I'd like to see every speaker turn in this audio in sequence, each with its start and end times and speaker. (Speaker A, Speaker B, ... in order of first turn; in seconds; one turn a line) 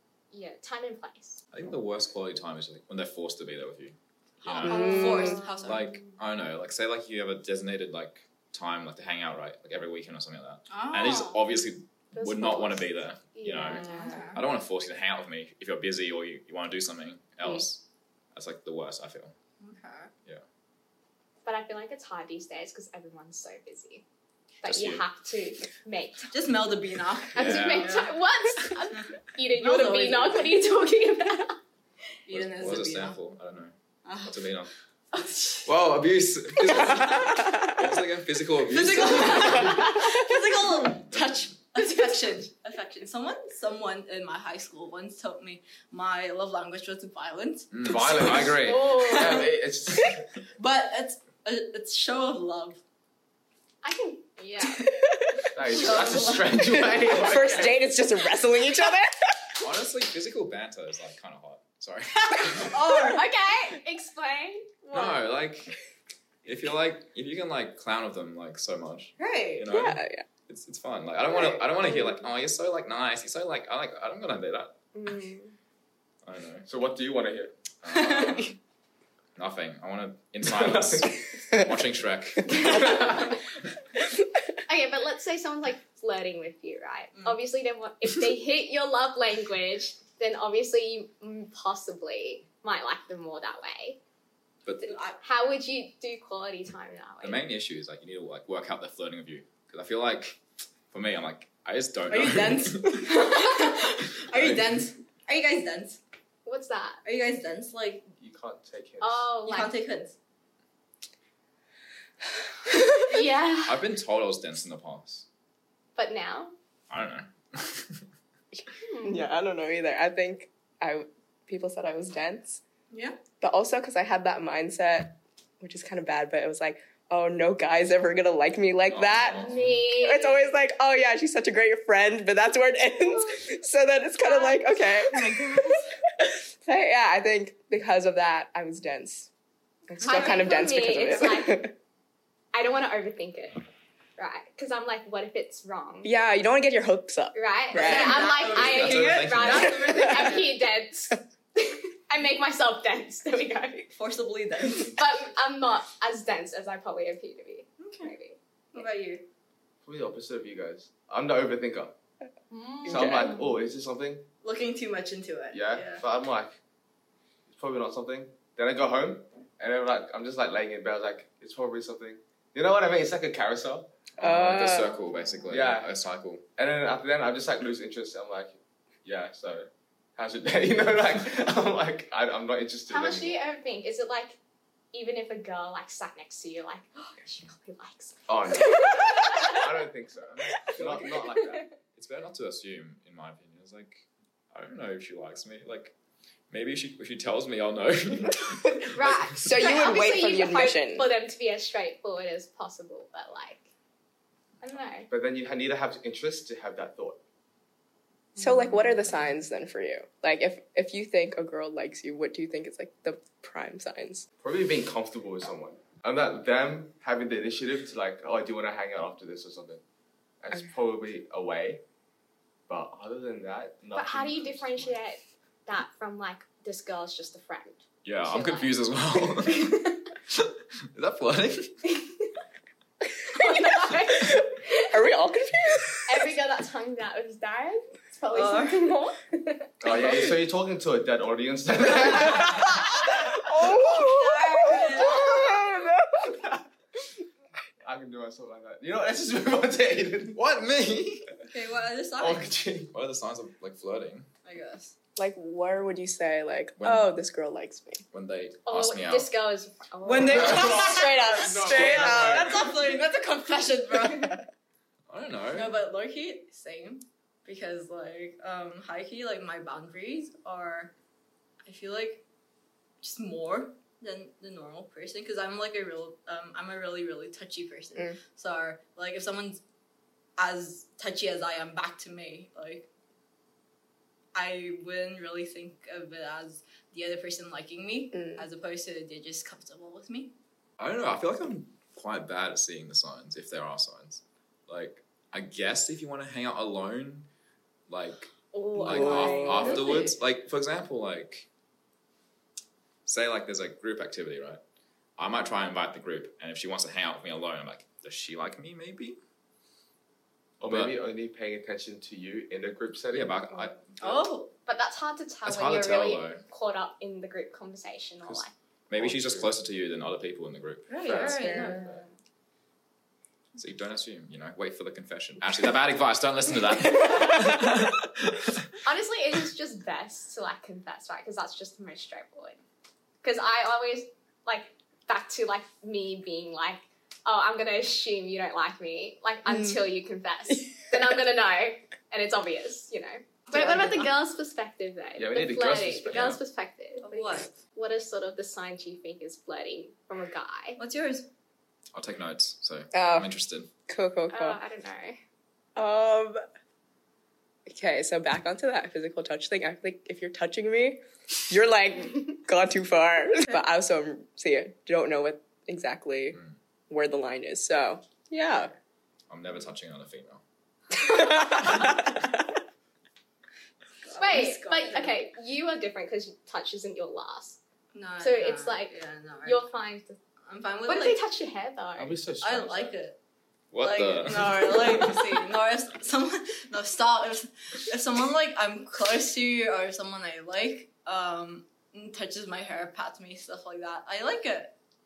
Speaker A: 0.3-1.4
Speaker B: 1.5-19.3
Speaker C: 4.4-5.9
Speaker D: 4.6-5.4
Speaker A: 4.6-6.0
Speaker C: 10.7-11.4
Speaker A: 12.1-14.4
Speaker C: 13.7-14.4
Speaker C: 19.6-20.1
Speaker A: 21.4-24.0
Speaker B: 24.6-25.1
Speaker A: 24.6-26.3
Speaker C: 26.3-28.1
Speaker A: 27.3-31.6
Speaker B: 27.4-28.1
Speaker C: 28.7-30.8
Speaker C: 32.2-33.2
Speaker B: 32.3-33.7
Speaker C: 34.0-34.4
Speaker B: 34.2-34.7
Speaker A: 35.1-35.6
Speaker B: 35.6-39.9
Speaker D: 37.2-37.7
Speaker C: 38.7-48.4
Speaker A: 39.2-40.1
Speaker B: 41.1-41.4
Speaker B: 47.7-49.2
Speaker E: 47.8-50.3
Speaker A: 48.6-49.5
Speaker C: 49.0-49.5
Speaker C: 50.6-52.8
Speaker A: 53.8-54.9
Speaker D: 54.9-55.5
Speaker E: 55.5-57.8
Speaker C: 55.6-57.0
Speaker D: 56.7-59.4
Speaker B: 59.6-62.8
Speaker C: 62.6-63.2
Speaker A: 62.9-65.3
Speaker B: 64.9-65.8
Speaker B: 66.4-74.8
Speaker C: 69.2-69.7
Speaker D: 69.7-70.2
Speaker A: 75.0-75.5
Speaker B: 76.2-76.7
Speaker E: 76.7-77.7
Speaker B: 77.8-78.6
Speaker C: 77.9-78.5
Speaker B: 79.3-83.4
Speaker E: 80.4-81.3
Speaker A: 82.5-83.4
Speaker A: 84.7-94.0
Speaker B: 94.6-95.0
Speaker C: 94.8-95.2
Speaker A: 95.2-97.4
Speaker B: 97.2-100.4
Speaker B: 100.9-103.1
Speaker C: 102.1-106.0
Speaker B: 104.2-104.8
Speaker A: 106.4-107.0
Speaker C: 107.0-108.0
Speaker E: 108.2-109.3
Speaker A: 109.0-109.8
Speaker C: 109.4-110.2
Speaker A: 113.0-113.8
Speaker B: 113.7-115.2
Speaker A: 116.0-116.5
Speaker B: 116.9-118.0
Speaker D: 118.5-122.6
Speaker A: 118.8-119.3
Speaker C: 122.9-123.2
Speaker D: 123.4-139.3
Speaker B: 128.9-129.7
Speaker A: 129.3-130.6
Speaker A: 134.2-135.8
Speaker C: 135.1-135.8
Speaker D: 139.9-141.7
Speaker A: 140.0-141.7
Speaker C: 140.1-140.3
Speaker A: 142.5-143.6
Speaker A: 144.2-146.1
Speaker D: 146.0-148.3
Speaker A: 147.3-153.9
Speaker C: 147.7-150.5
Speaker B: 148.5-149.9
Speaker D: 149.9-150.2
Speaker C: 153.9-155.0
Speaker A: 154.8-158.8
Speaker C: 157.8-158.1
Speaker C: 158.7-159.2
Speaker E: 159.8-161.9
Speaker A: 162.5-163.5
Speaker D: 162.8-163.3
Speaker E: 162.8-164.2
Speaker C: 164.4-166.0
Speaker E: 165.5-166.6
Speaker E: 167.5-174.0
Speaker B: 174.2-176.4
Speaker D: 174.2-174.9
Speaker E: 175.5-175.9
Speaker E: 176.6-183.4
Speaker A: 182.9-184.4
Speaker A: 184.9-189.7
Speaker E: 188.3-191.7
Speaker B: 190.5-191.1
Speaker A: 191.2-191.7
Speaker B: 191.9-195.9
Speaker B: 196.5-199.8
Speaker A: 198.9-203.7
Speaker D: 199.4-201.1
Speaker A: 204.6-205.1
Speaker E: 205.1-207.2
Speaker A: 208.3-208.8
Speaker D: 208.4-214.2
Speaker E: 214.4-219.8
Speaker E: 220.4-221.8
Speaker E: 222.7-224.9
Speaker A: 223.9-228.7
Speaker B: 228.0-231.9
Speaker A: 229.4-230.0
Speaker A: 233.3-235.0
Speaker D: 234.2-236.3
Speaker A: 236.1-239.7
Speaker C: 238.3-238.9
Speaker E: 239.8-243.4
Speaker D: 243.3-246.4
Speaker C: 243.6-245.4
Speaker E: 247.8-250.4
Speaker B: 250.3-251.4
Speaker C: 251.5-252.6
Speaker E: 252.2-252.9
Speaker B: 252.9-254.3
Speaker C: 254.4-254.9
Speaker D: 255.2-258.0
Speaker B: 256.8-257.1
Speaker B: 258.1-259.3
Speaker A: 258.6-260.9
Speaker C: 260.0-264.4
Speaker E: 260.3-263.0
Speaker D: 260.3-262.8
Speaker D: 264.0-264.4
Speaker B: 265.1-265.7
Speaker C: 265.5-270.9
Speaker C: 271.6-272.2
Speaker C: 273.0-279.6
Speaker C: 280.4-282.9
Speaker C: 284.3-290.3
Speaker D: 288.1-288.4
Speaker B: 290.8-297.3
Speaker B: 297.9-301.5
Speaker A: 298.5-300.1
Speaker D: 298.9-299.8
Speaker B: 303.0-304.6
Speaker B: 305.2-309.2
Speaker E: 310.6-313.4
Speaker B: 310.6-310.9
Speaker B: 313.1-314.2
Speaker C: 314.0-314.5
Speaker A: 314.6-318.5
Speaker B: 315.4-316.4
Speaker B: 318.2-321.0
Speaker E: 318.9-319.5
Speaker C: 320.9-321.9
Speaker E: 321.0-322.0
Speaker A: 321.1-322.1
Speaker D: 321.4-321.8
Speaker B: 323.5-328.7
Speaker D: 327.0-327.7
Speaker A: 328.8-332.6
Speaker A: 333.2-350.8
Speaker D: 339.5-339.8
Speaker C: 343.5-344.1
Speaker E: 345.1-346.4
Speaker B: 346.1-346.4
Speaker C: 347.0-347.5
Speaker C: 350.8-351.3
Speaker B: 351.9-353.7
Speaker D: 352.9-353.3
Speaker D: 353.9-354.6
Speaker A: 354.3-355.2
Speaker D: 355.8-356.4
Speaker D: 357.6-366.4
Speaker D: 366.9-368.7
Speaker B: 369.3-370.4
Speaker D: 370.9-372.4
Speaker C: 374.0-375.2
Speaker A: 374.2-377.6
Speaker C: 377.9-379.6
Speaker A: 378.2-380.2
Speaker C: 380.4-381.2
Speaker A: 380.9-382.1
Speaker E: 382.0-382.9
Speaker C: 382.4-383.2
Speaker B: 383.7-385.2
Speaker C: 383.8-394.7